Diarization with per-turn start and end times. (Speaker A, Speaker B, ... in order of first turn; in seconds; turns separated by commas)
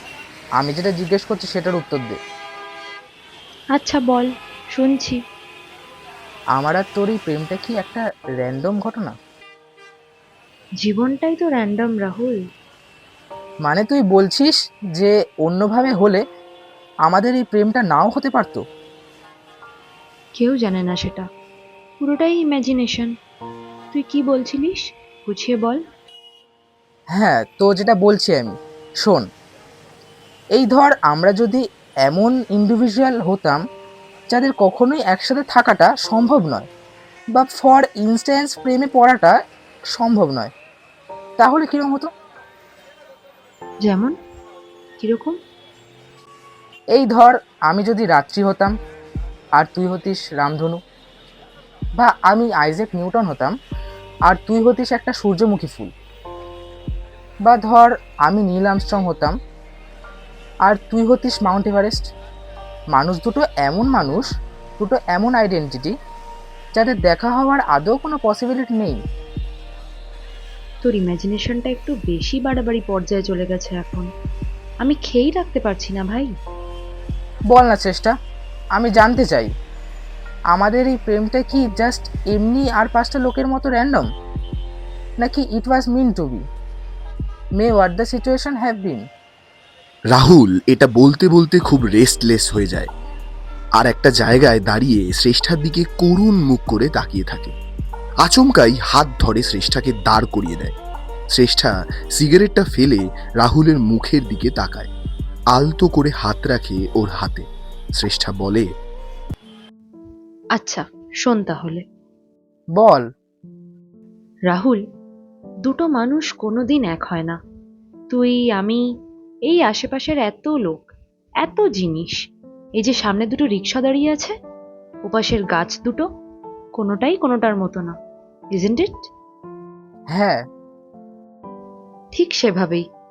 Speaker A: 0.6-2.2, Speaker B: 3.8-5.2, Speaker A: 6.5-9.1, Speaker B: 10.8-12.4, Speaker A: 13.7-16.2, Speaker A: 17.1-18.6, Speaker B: 20.4-21.3, Speaker B: 22.0-23.1, Speaker B: 23.9-25.8, Speaker A: 27.1-29.2, Speaker A: 30.6-33.6, Speaker A: 34.3-36.7, Speaker A: 37.3-39.4, Speaker A: 39.9-40.5, Speaker A: 41.4-42.1, Speaker B: 43.8-44.1, Speaker B: 45.0-45.4, Speaker A: 46.9-48.7, Speaker A: 49.6-50.8, Speaker A: 52.0-53.5, Speaker A: 54.3-55.9, Speaker A: 57.4-59.4, Speaker A: 60.6-62.1, Speaker A: 62.9-64.3, Speaker A: 64.8-66.0, Speaker A: 66.7-69.0, Speaker B: 70.8-74.1, Speaker B: 74.8-76.3, Speaker A: 77.5-78.2, Speaker A: 78.7-79.5, Speaker A: 80.5-84.1, Speaker A: 85.2-86.4, Speaker A: 87.5-89.1, Speaker C: 90.1-92.9, Speaker C: 93.8-97.5, Speaker C: 98.2-100.7, Speaker C: 101.3-104.9, Speaker C: 105.5-107.5, Speaker C: 108.0-108.7, Speaker B: 110.5-111.8, Speaker A: 112.8-113.0, Speaker B: 114.5-114.8, Speaker B: 115.6-117.4, Speaker B: 118.1-118.8, Speaker B: 119.5-120.9, Speaker B: 121.4-122.2, Speaker B: 122.8-124.3, Speaker B: 125.0-126.1, Speaker B: 126.8-128.0, Speaker B: 128.5-129.1, Speaker A: 130.1-130.4, Speaker B: 132.1-132.8